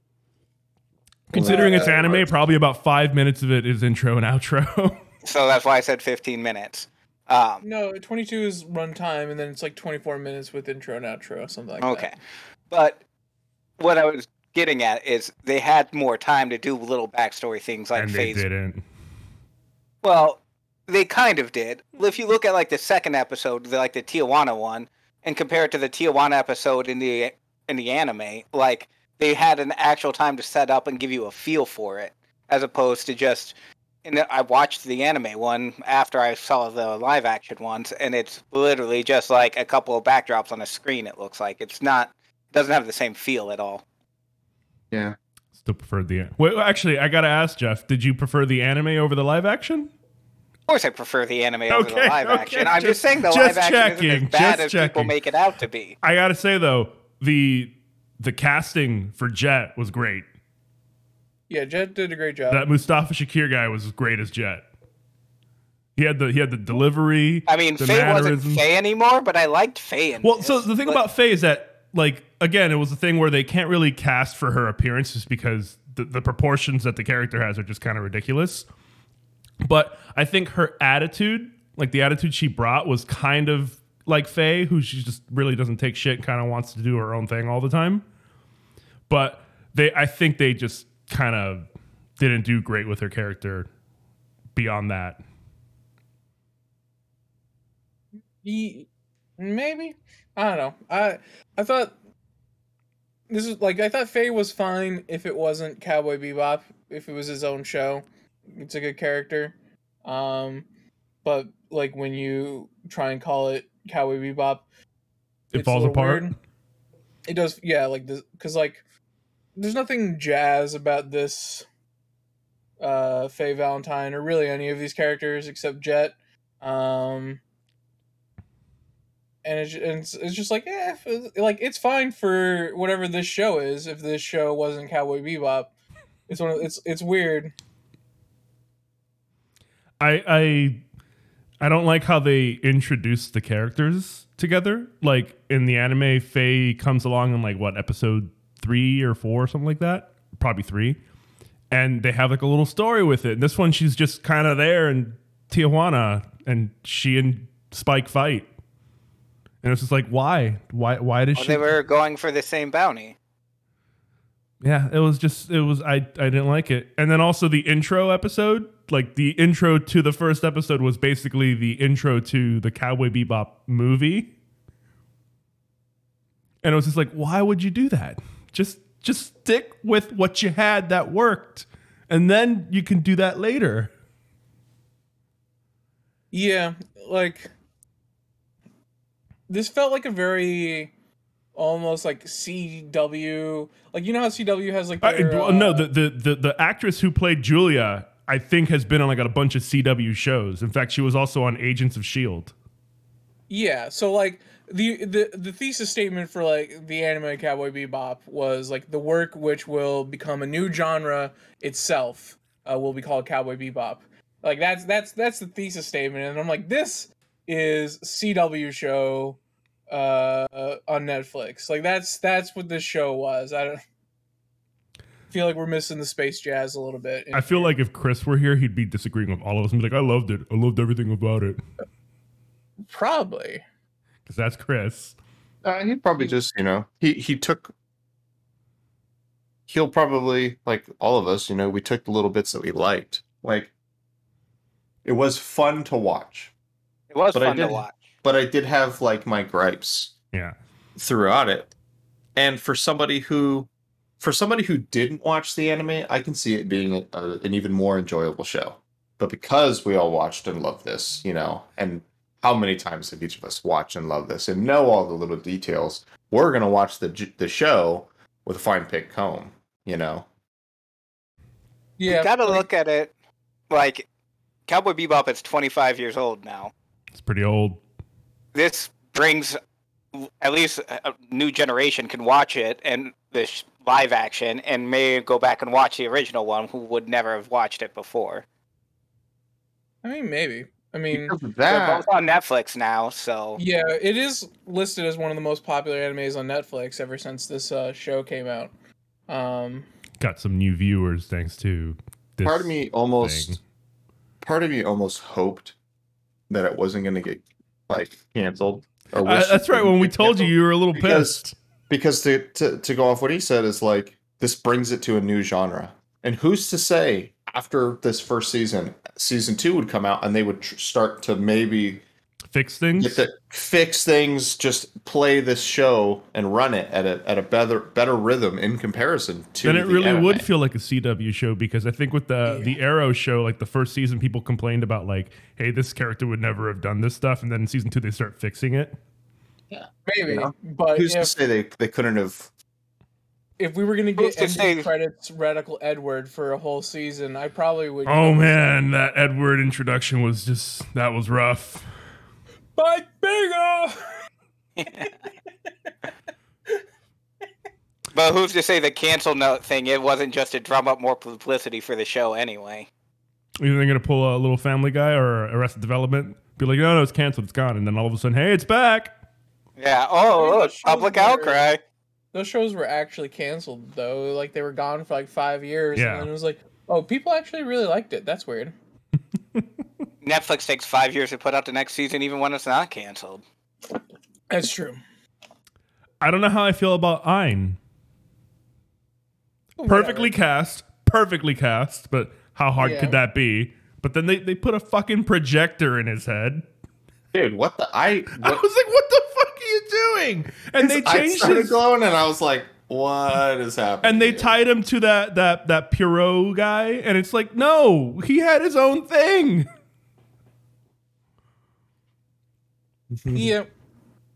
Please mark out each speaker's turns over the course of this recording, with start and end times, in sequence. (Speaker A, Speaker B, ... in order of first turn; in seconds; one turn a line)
Speaker A: 1.3-5.0
Speaker B: 1.3-2.3
Speaker C: 1.4-2.0
Speaker D: 5.2-7.6
Speaker C: 7.6-12.1
Speaker D: 11.8-12.2
Speaker D: 12.7-13.0
Speaker D: 13.8-18.4
Speaker A: 17.9-18.8
Speaker D: 20.0-43.8
Speaker B: 44.9-45.2
Speaker A: 45.6-49.9
Speaker D: 50.7-56.0
Speaker A: 51.7-55.1
Speaker A: 56.0-60.3
Speaker C: 61.5-62.7
Speaker A: 62.5-64.7
Speaker A: 66.0-68.6
Speaker D: 67.5-71.0
Speaker A: 70.2-78.7
Speaker A: 79.6-88.0
Speaker A: 89.1-91.7
Speaker A: 92.2-93.7
Speaker A: 94.5-95.2
Speaker C: 98.4-98.9
Speaker C: 99.4-101.9
Speaker C: 103.3-109.5
Speaker C: 110.0-110.7
Speaker C: 111.2-114.7
Speaker A: 115.5-116.3
Speaker C: 115.5-116.3
Speaker C: 117.3-118.8
Speaker C: 119.6-121.7
Speaker C: 122.8-127.4
Speaker C: 129.4-135.7
Speaker C: 136.3-137.5
Speaker A: 140.0-140.8
Speaker A: 141.6-151.0
Speaker A: 151.7-158.5
Speaker A: 159.6-161.7
Speaker D: 161.4-163.2
Speaker A: 164.6-174.3
Speaker A: 176.6-183.9
Speaker C: 186.3-187.5
Speaker C: 189.5-190.9
Speaker C: 191.6-195.9
Speaker A: 195.0-202.5
Speaker C: 203.5-219.4
Speaker C: 219.9-223.8
Speaker C: 225.3-227.7
Speaker A: 227.3-231.6
Speaker C: 232.9-233.6
Speaker A: 234.3-235.2
Speaker B: 235.6-237.7
Speaker B: 239.7-243.7
Speaker B: 245.1-246.5
Speaker D: 247.1-247.9
Speaker B: 247.3-250.1
Speaker B: 251.0-251.7
Speaker B: 252.4-253.7
Speaker B: 254.2-270.3
Speaker C: 272.0-272.6
Speaker D: 272.1-273.1
Speaker D: 273.7-274.1
Speaker D: 274.7-276.7
Speaker A: 277.1-277.8
Speaker D: 278.5-279.6
Speaker D: 280.1-288.4
Speaker C: 290.0-291.4
Speaker B: 291.1-292.1
Speaker D: 291.7-293.6
Speaker C: 293.6-298.7
Speaker C: 299.3-299.9
Speaker A: 300.2-303.6
Speaker B: 302.4-303.6
Speaker B: 304.4-305.8
Speaker B: 306.5-322.0
Speaker A: 309.2-311.6
Speaker A: 322.5-323.2
Speaker B: 323.0-330.5
Speaker A: 329.6-339.0
Speaker C: 332.5-332.8
Speaker B: 339.7-342.5
Speaker C: 340.1-341.3
Speaker C: 343.6-348.8
Speaker D: 344.2-344.9
Speaker A: 348.1-351.9
Speaker C: 352.8-354.0
Speaker D: 354.8-355.1
Speaker D: 358.1-362.9
Speaker A: 363.6-369.1
Speaker D: 369.8-371.8
Speaker C: 370.3-371.7
Speaker C: 372.3-378.7
Speaker A: 375.9-376.3
Speaker D: 380.2-383.4
Speaker C: 384.5-385.0
Speaker A: 386.2-387.8
Speaker C: 389.8-390.3
Speaker A: 389.9-396.6
Speaker C: 392.8-393.2
Speaker B: 397.3-398.6
Speaker A: 398.4-401.8
Speaker B: 400.8-404.6
Speaker A: 404.0-409.7
Speaker B: 413.1-413.5
Speaker C: 413.3-413.7